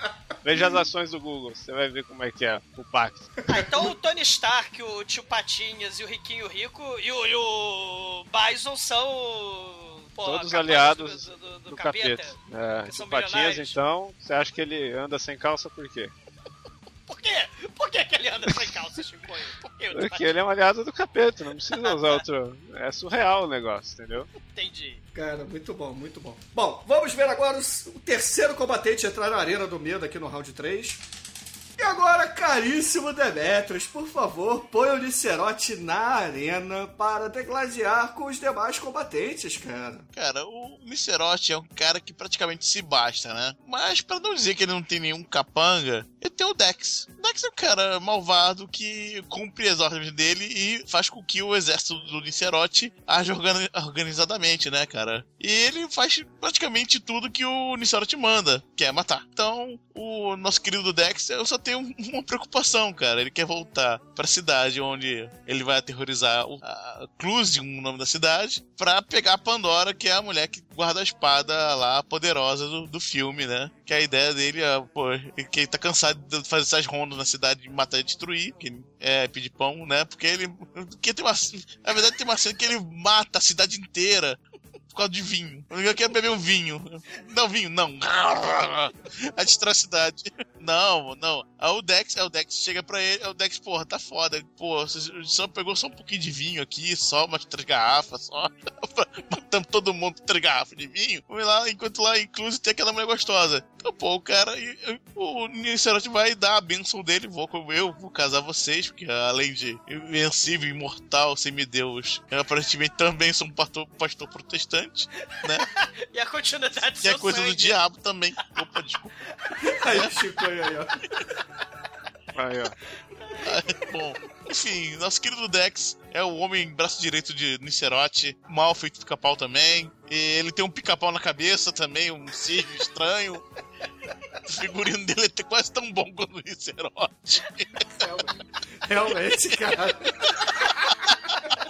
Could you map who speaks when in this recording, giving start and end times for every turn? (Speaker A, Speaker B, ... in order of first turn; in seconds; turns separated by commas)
Speaker A: 0.4-3.3, Speaker B: 0.5-0.8, Speaker C: 3.5-13.8, Speaker A: 10.2-16.1, Speaker C: 17.1-20.3, Speaker A: 19.9-24.3, Speaker C: 21.7-22.2, Speaker C: 24.4-25.0, Speaker B: 25.1-31.0, Speaker B: 31.8-40.1, Speaker D: 40.1-84.4, Speaker D: 84.9-115.7, Speaker C: 115.8-117.8, Speaker D: 117.0-119.2, Speaker B: 119.6-121.0, Speaker A: 122.4-122.7, Speaker D: 123.4-133.4, Speaker D: 134.4-137.9, Speaker B: 138.0-140.7